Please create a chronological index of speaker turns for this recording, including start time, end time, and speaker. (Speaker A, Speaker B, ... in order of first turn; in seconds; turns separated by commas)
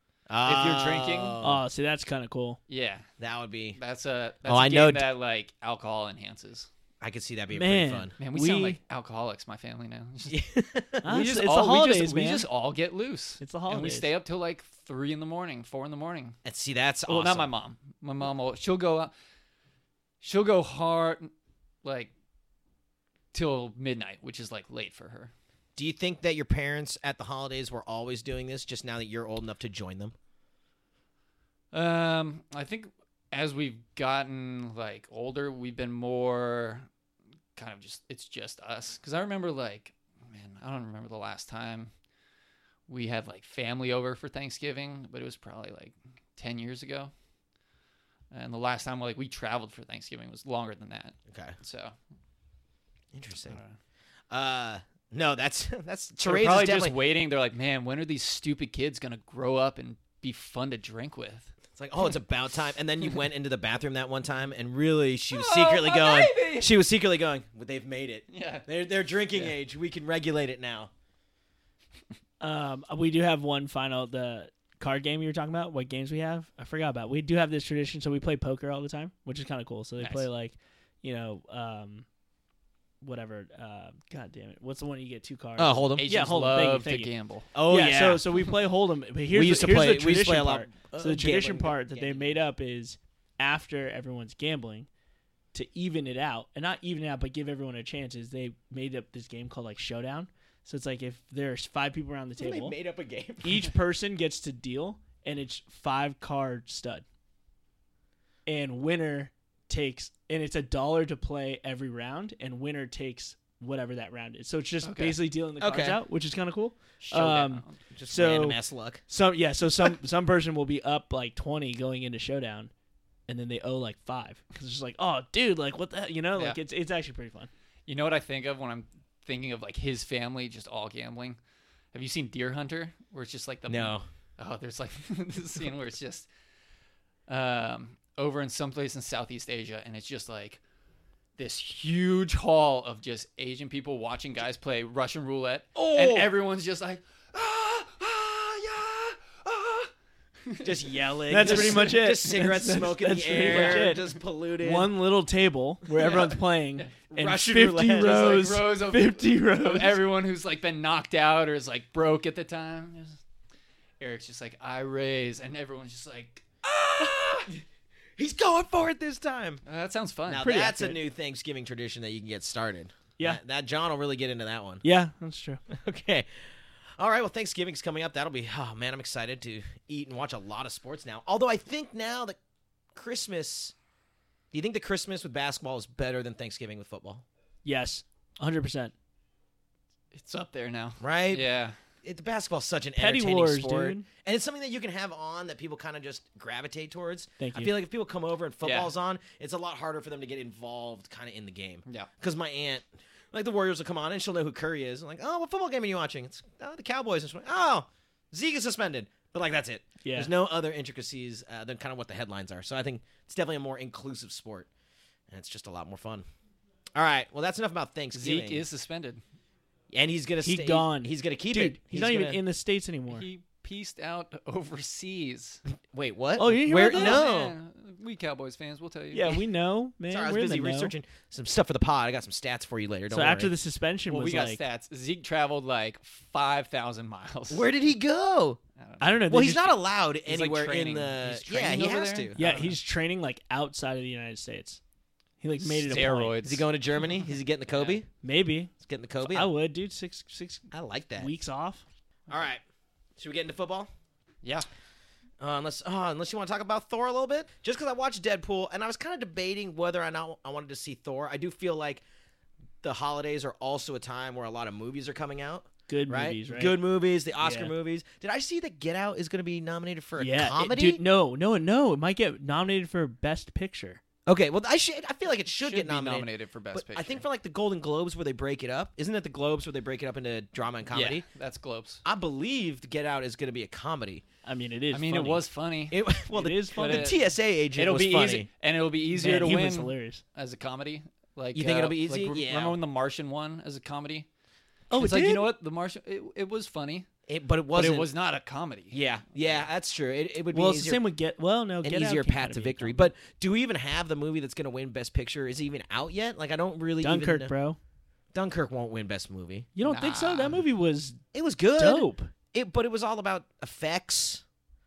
Speaker A: 0.3-1.6, Speaker B: 0.5-1.4, Speaker C: 1.4-2.6, Speaker B: 2.7-3.1, Speaker A: 3.2-3.8, Speaker B: 3.8-6.7, Speaker A: 4.5-5.1, Speaker A: 7.0-8.2, Speaker C: 7.5-8.8, Speaker B: 8.2-10.4, Speaker A: 10.3-11.1, Speaker B: 11.0-16.4, Speaker C: 11.0-12.5, Speaker C: 13.4-14.1, Speaker A: 16.4-17.5, Speaker B: 17.1-19.1, Speaker B: 20.2-21.3, Speaker B: 21.8-22.1, Speaker B: 23.3-25.3, Speaker A: 25.8-30.1, Speaker B: 31.7-36.9, Speaker B: 37.6-41.9, Speaker B: 42.9-47.1, Speaker B: 48.3-51.9, Speaker A: 51.3-51.5, Speaker A: 53.1-53.6, Speaker B: 53.5-53.8, Speaker A: 54.3-57.0, Speaker B: 56.2-61.5, Speaker A: 61.8-70.9, Speaker B: 65.3-66.7, Speaker B: 68.3-68.7, Speaker C: 72.4-82.1, Speaker B: 80.0-80.3, Speaker C: 83.0-87.1, Speaker A: 85.6-86.1, Speaker B: 86.0-87.5, Speaker A: 87.5-88.2, Speaker C: 87.7-94.9, Speaker A: 89.3-92.3, Speaker C: 95.5-102.8, Speaker A: 102.4-103.7, Speaker C: 103.4-107.0, Speaker C: 108.5-122.7, Speaker B: 114.8-115.2, Speaker A: 115.6-116.0, Speaker B: 117.0-117.8, Speaker A: 117.9-119.0, Speaker C: 123.3-127.5, Speaker B: 127.9-131.4, Speaker B: 131.9-136.3, Speaker A: 133.7-134.1, Speaker B: 137.3-140.6, Speaker B: 141.4-149.9, Speaker A: 145.8-146.3, Speaker B: 150.5-151.9, Speaker A: 150.6-154.9, Speaker C: 151.3-154.1, Speaker B: 153.4-154.1, Speaker C: 154.6-160.0, Speaker B: 156.0-156.9, Speaker A: 157.1-158.5, Speaker B: 157.9-163.2, Speaker B: 164.0-167.5, Speaker A: 167.0-167.6, Speaker A: 168.2-169.6, Speaker B: 169.7-170.5, Speaker A: 170.3-174.8, Speaker C: 170.4-171.0, Speaker C: 174.8-175.6, Speaker A: 175.7-176.3, Speaker A: 177.0-182.4, Speaker A: 182.9-183.8, Speaker A: 184.5-187.2, Speaker C: 187.7-188.9, Speaker B: 190.1-191.8, Speaker A: 191.0-191.4, Speaker A: 192.0-214.7, Speaker C: 193.0-194.1, Speaker C: 197.4-197.7, Speaker B: 198.6-198.9, Speaker C: 210.0-210.3, Speaker A: 215.3-216.2, Speaker A: 217.0-218.6, Speaker B: 218.1-219.2, Speaker A: 219.9-222.4, Speaker C: 220.4-223.3, Speaker B: 223.1-225.6, Speaker A: 225.9-227.6, Speaker C: 226.4-227.2, Speaker B: 226.7-229.4, Speaker C: 229.1-230.9, Speaker A: 230.1-233.5, Speaker C: 233.1-234.6, Speaker B: 234.1-237.7, Speaker A: 237.5-238.6, Speaker B: 238.8-239.3, Speaker C: 239.0-239.8, Speaker A: 239.3-242.4, Speaker B: 240.3-242.8, Speaker C: 242.4-244.8, Speaker C: 245.4-246.4, Speaker B: 245.6-246.7, Speaker A: 246.4-248.1, Speaker B: 247.7-248.0, Speaker C: 248.2-248.7, Speaker A: 248.8-249.5, Speaker C: 249.2-251.8, Speaker A: 250.7-251.3, Speaker A: 252.3-252.6, Speaker A: 253.2-253.9, Speaker A: 255.4-262.0, Speaker A: 262.8-271.0, Speaker C: 265.9-266.8, Speaker C: 267.4-267.7, Speaker C: 270.2-274.0, Speaker A: 274.3-281.2, Speaker B: 275.6-277.2, Speaker B: 280.9-282.0, Speaker A: 282.1-284.2, Speaker C: 284.4-285.4, Speaker B: 284.9-286.1, Speaker A: 285.9-288.5, Speaker C: 286.3-287.1, Speaker B: 286.7-287.2, Speaker B: 287.8-294.3, Speaker C: 289.1-290.2, Speaker A: 291.5-292.8, Speaker C: 294.9-295.5, Speaker B: 294.9-297.1, Speaker A: 297.3-298.1, Speaker B: 297.7-299.6, Speaker A: 298.9-301.0, Speaker C: 300.5-303.1, Speaker A: 301.8-307.5, Speaker C: 307.0-307.8, Speaker A: 308.3-309.7, Speaker C: 309.8-311.2, Speaker B: 309.8-310.6, Speaker A: 311.3-314.4, Speaker C: 311.8-312.3